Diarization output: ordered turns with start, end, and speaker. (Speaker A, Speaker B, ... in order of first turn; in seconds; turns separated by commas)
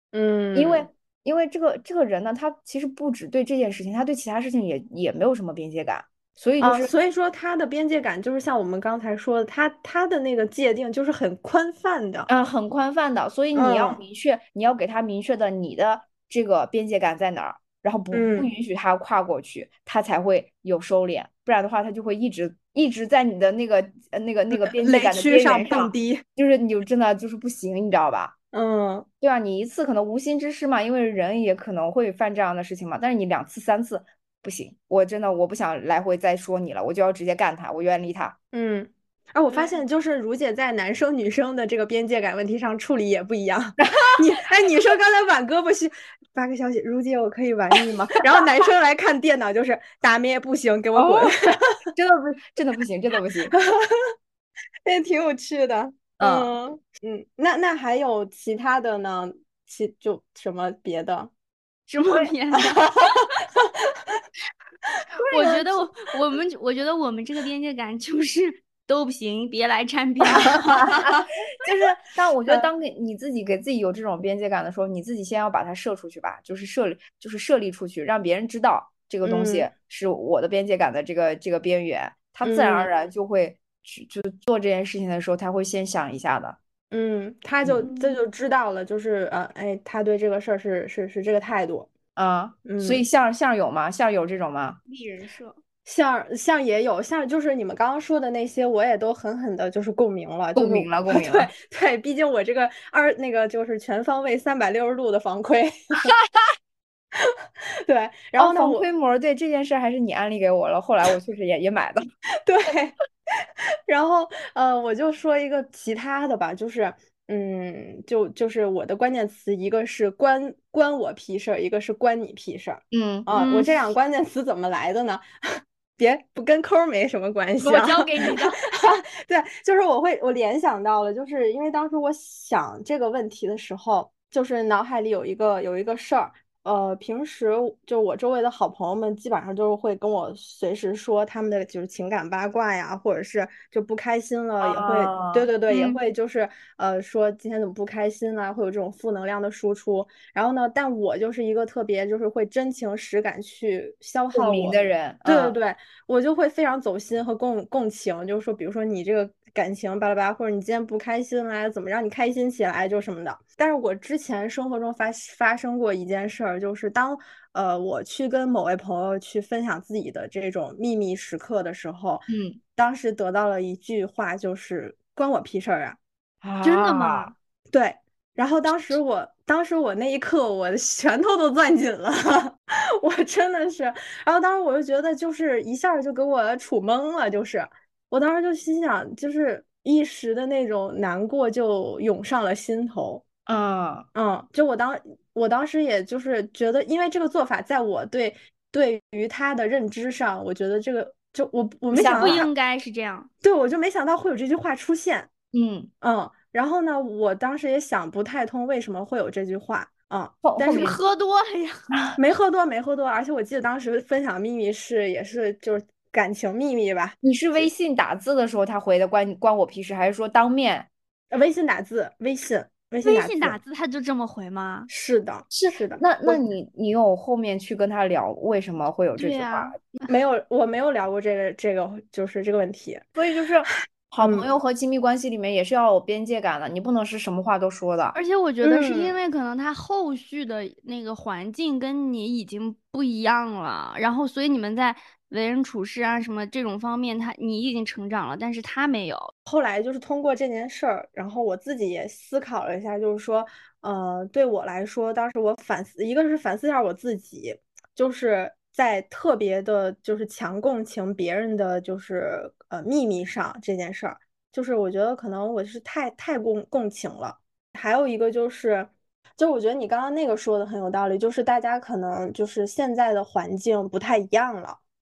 Speaker A: 0.1-0.9, Speaker B: 0.5-6.9, Speaker A: 6.6-12.3, Speaker B: 12.3-28.3, Speaker A: 13.5-14.0, Speaker A: 18.1-18.5, Speaker A: 24.6-26.2, Speaker A: 28.5-29.1, Speaker B: 29.2-38.4, Speaker A: 38.5-51.8, Speaker B: 43.8-44.2, Speaker B: 50.9-51.3, Speaker B: 51.9-53.5, Speaker A: 53.5-54.1, Speaker A: 54.8-61.3, Speaker B: 56.2-56.5, Speaker C: 61.9-62.9, Speaker A: 62.8-64.1, Speaker C: 65.3-70.8, Speaker A: 65.3-65.6, Speaker A: 70.3-70.9, Speaker B: 70.8-86.6, Speaker A: 79.2-79.7, Speaker A: 82.4-82.9, Speaker A: 86.9-91.9, Speaker C: 87.8-88.1, Speaker B: 92.2-94.8, Speaker A: 92.7-93.0, Speaker C: 94.9-95.6, Speaker A: 95.8-106.1, Speaker B: 100.5-101.5, Speaker A: 107.2-108.8, Speaker B: 108.4-112.0, Speaker A: 112.4-113.0, Speaker A: 113.9-125.2, Speaker B: 122.9-123.3, Speaker C: 123.3-123.7, Speaker A: 126.0-176.0, Speaker C: 127.6-128.6, Speaker B: 144.6-145.5, Speaker C: 145.7-146.0, Speaker B: 154.3-155.6, Speaker B: 172.3-172.6, Speaker B: 176.4-177.3, Speaker C: 176.6-177.3, Speaker A: 177.7-193.2, Speaker B: 193.5-194.1, Speaker A: 194.1-202.5, Speaker B: 201.9-202.4, Speaker C: 202.0-203.3, Speaker A: 203.4-205.3, Speaker B: 205.5-205.9, Speaker A: 206.0-210.9, Speaker B: 210.4-211.0, Speaker C: 210.7-211.8, Speaker A: 212.2-217.7, Speaker B: 217.2-220.9, Speaker A: 221.3-223.6, Speaker C: 223.0-224.9, Speaker A: 224.9-226.4, Speaker B: 225.5-229.8, Speaker C: 229.2-230.1, Speaker A: 230.1-233.1, Speaker B: 233.2-238.2, Speaker A: 234.2-234.5, Speaker C: 238.1-249.3, Speaker A: 238.6-239.1, Speaker A: 249.5-274.8